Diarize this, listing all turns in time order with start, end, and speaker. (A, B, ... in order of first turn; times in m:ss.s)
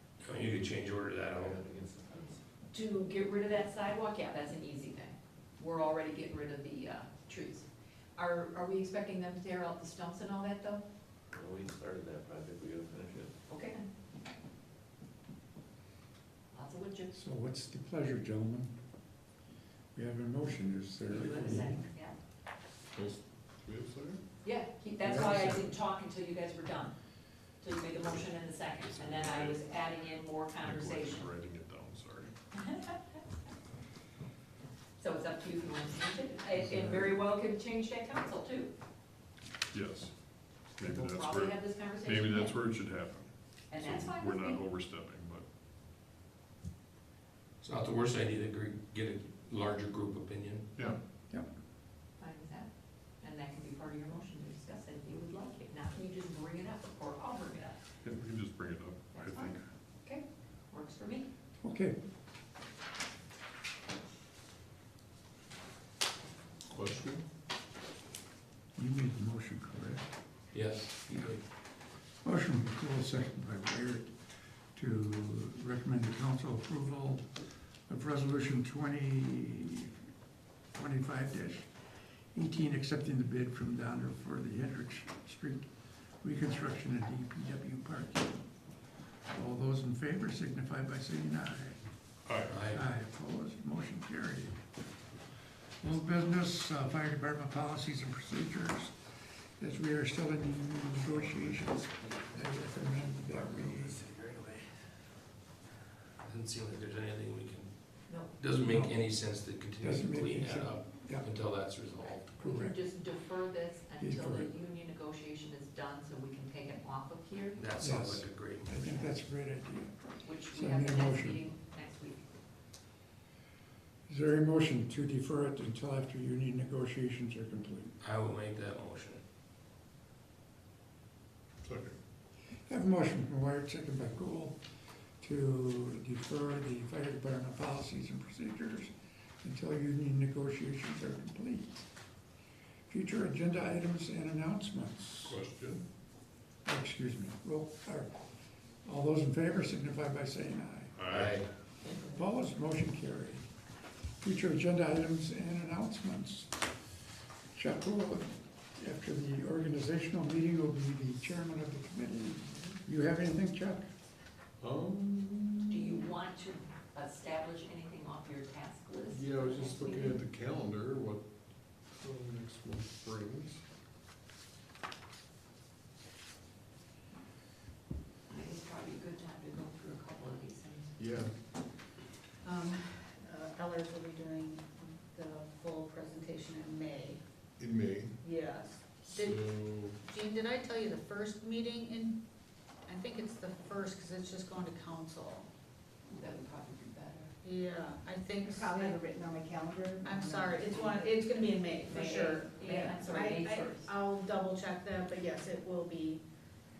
0:00.2-0:01.6 A
0:01.3-0:02.4 B
0:02.7-0:10.8 C
0:11.3-0:13.3 B
0:13.5-0:13.9 C
0:16.5-0:17.1 C
0:17.1-0:18.7 D
0:19.9-0:21.9 D
0:21.0-0:22.2 C
0:22.9-0:24.2 E
0:24.4-0:27.0 C
0:25.0-0:25.7 D
0:27.6-0:31.3 C
0:28.8-0:29.6 E
0:30.6-0:32.3 E
0:32.6-0:33.2 C
0:35.0-0:38.7 C
0:36.6-0:37.1 D
0:39.7-0:40.1 E
0:40.8-0:45.4 E
0:40.8-0:42.6 C
0:43.7-0:44.6 C
0:47.6-0:50.7 A
0:52.2-0:57.8 C
0:58.0-0:59.6 E
0:59.3-1:01.3 C
1:01.6-1:02.0 D
1:06.7-1:07.2 E
1:08.8-1:10.1 D
1:10.5-1:11.4 A
1:12.2-1:17.3 D
1:17.9-1:19.9 D
1:20.8-1:21.7 D
1:22.3-1:28.5 D
1:29.3-1:31.9 D
1:32.3-1:32.6 E
1:32.5-1:32.8 A
1:32.7-1:34.6 D
1:35.8-1:44.1 D
1:46.2-1:52.3 A
1:48.1-1:48.4 C
1:48.6-1:51.3 D
1:52.4-1:52.8 D
1:52.4-1:57.6 C
1:54.0-1:54.5 D
1:57.6-1:58.7 A
1:57.8-2:01.4 D
1:58.7-1:59.2 C
2:00.2-2:02.2 C
2:04.1-2:08.0 D
2:08.0-2:09.2 A
2:11.6-2:12.0 E
2:12.6-2:14.6 D
2:15.2-2:21.8 D
2:22.9-2:25.4 D
2:25.2-2:25.8 E
2:26.6-2:28.2 D
2:28.8-2:30.9 D
2:31.0-2:31.5 E
2:31.1-2:31.5 A
2:31.9-2:32.2 C
2:31.9-2:33.5 D
2:34.2-2:36.8 D
2:37.5-2:43.9 D
2:42.5-2:42.8 C
2:44.6-2:46.1 E
2:45.7-2:50.2 C
2:49.1-2:51.2 E
2:51.8-2:53.6 E
2:58.3-3:01.0 C
3:01.0-3:01.4 E
3:02.4-3:07.2 F
3:07.6-3:08.2 E
3:08.2-3:12.2 F
3:09.0-3:10.0 E
3:12.9-3:15.5 F
3:16.1-3:17.3 C
3:17.4-3:19.0 F
3:18.5-3:21.1 G
3:20.0-3:26.2 F
3:21.9-3:23.9 C